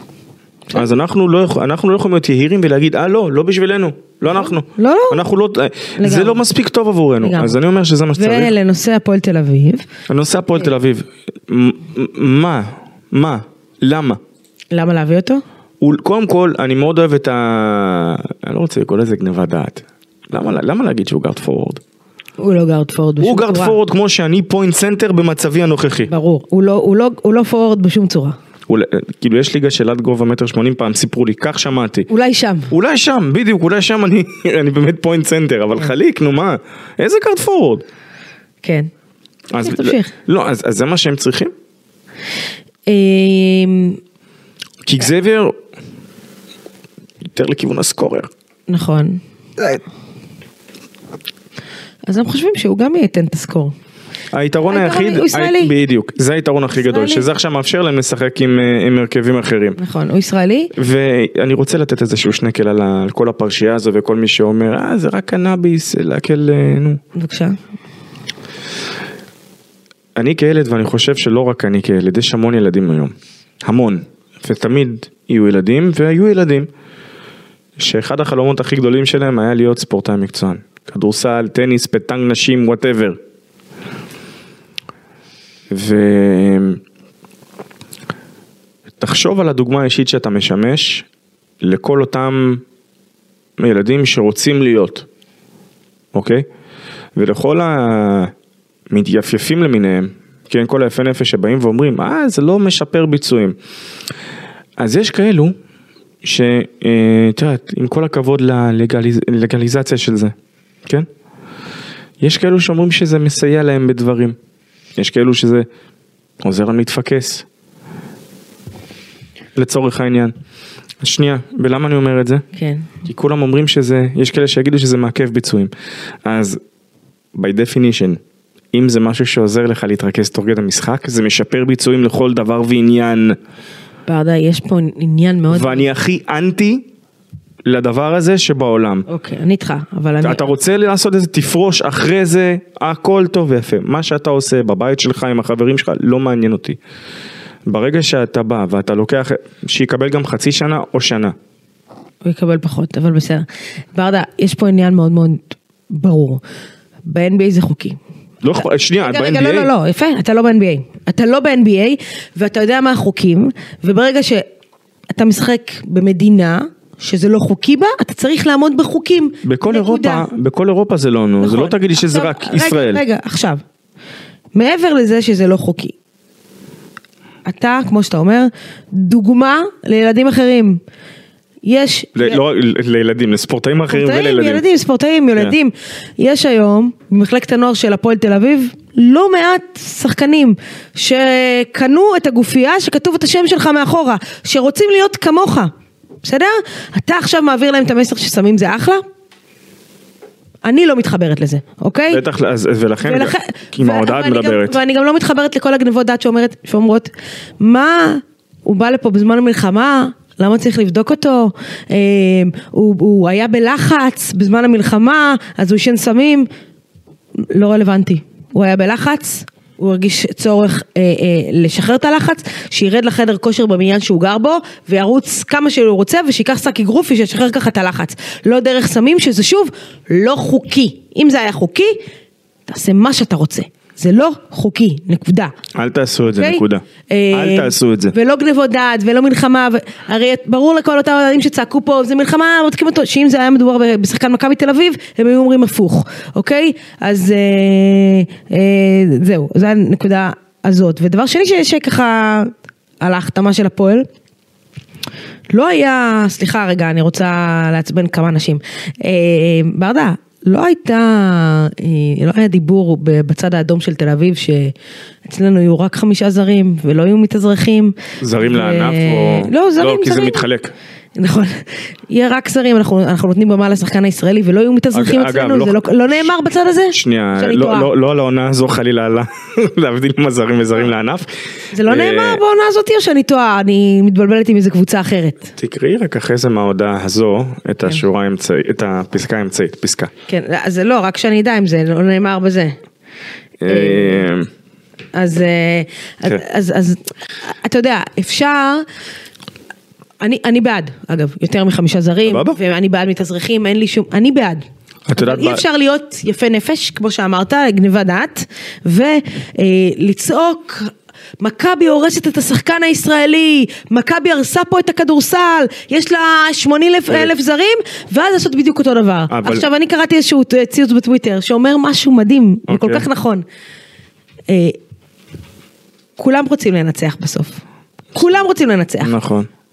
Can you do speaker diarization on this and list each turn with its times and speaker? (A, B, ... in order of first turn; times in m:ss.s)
0:00.7-0:08.6 A
0:04.3-0:05.2 B
0:06.0-0:06.4 B
0:07.2-0:07.6 B
0:08.2-0:09.8 B
0:10.1-0:14.2 A
0:14.7-0:15.4 B
0:15.8-0:21.8 A
0:22.4-0:23.8 B
0:23.2-0:26.1 A
0:26.1-0:28.4 B
0:28.7-0:32.1 A
0:32.1-0:32.7 B
0:32.7-0:37.8 A
0:38.6-0:38.9 B
0:39.5-0:41.5 A
0:39.6-0:40.1 B
0:42.9-0:44.0 B
0:44.8-0:45.6 A
0:47.2-0:48.3 A
0:48.7-0:49.2 B
0:52.1-0:53.7 B
0:54.3-0:59.8 A
0:54.7-0:55.7 B
0:56.8-0:57.3 B
0:59.8-1:00.7 B
1:00.7-1:07.0 A
1:07.2-1:07.6 B
1:10.2-1:16.7 A
1:17.8-1:23.2 A
1:25.7-1:26.8 A
1:29.0-1:31.1 A
1:31.6-1:32.6 A
1:33.6-1:35.1 A
1:36.1-1:36.5 A
1:37.2-1:38.3 A
1:38.9-1:43.6 A
1:44.8-1:45.6 A
1:46.2-1:50.3 A
1:52.2-1:54.4 A
1:55.0-1:55.7 A
1:56.4-1:57.4 A
1:59.6-2:00.3 A
2:01.0-2:02.4 A
2:02.6-2:02.9 B
2:03.0-2:05.7 A
2:06.2-2:06.6 A
2:07.4-2:08.2 A
2:08.7-2:13.4 A
2:14.1-2:15.9 B
2:15.5-2:16.9 A
2:17.7-2:19.1 A
2:19.1-2:20.5 B
2:20.2-2:26.8 A
2:27.7-2:31.4 A
2:32.2-2:36.4 B
2:37.1-2:38.0 B
2:38.4-2:39.7 A
2:39.0-2:44.4 B
2:45.1-2:50.3 B
2:49.4-2:53.0 A
2:51.4-2:53.6 B
2:54.6-2:55.9 B
2:57.5-3:00.8 B
3:01.6-3:02.4 B
3:02.2-3:04.6 A
3:03.9-3:15.7 B
3:16.2-3:19.0 B
3:20.6-3:22.2 B
3:22.1-3:24.8 A
3:23.0-3:36.5 B
3:37.5-3:52.0 B
3:52.7-3:55.5 B
3:55.8-3:58.2 A
3:56.3-4:14.1 B
4:15.5-4:24.7 B
4:25.3-4:30.5 B
4:28.2-4:30.7 A
4:31.2-4:37.9 B
4:34.9-4:36.3 A
4:36.9-4:41.3 A
4:41.7-4:45.5 B
4:41.8-4:42.4 A
4:45.6-4:50.1 A
4:50.3-4:52.8 B
4:53.6-4:54.5 A
4:53.7-4:54.3 B
4:55.1-4:58.8 B
5:00.2-5:04.6 B
5:02.3-5:02.6 A
5:05.1-5:05.6 A
5:05.2-5:23.4 B
5:19.3-5:19.7 A
5:22.7-5:23.0 A
5:24.5-5:24.8 B
5:26.2-5:27.6 B
5:28.1-5:29.1 B
5:29.0-5:29.5 A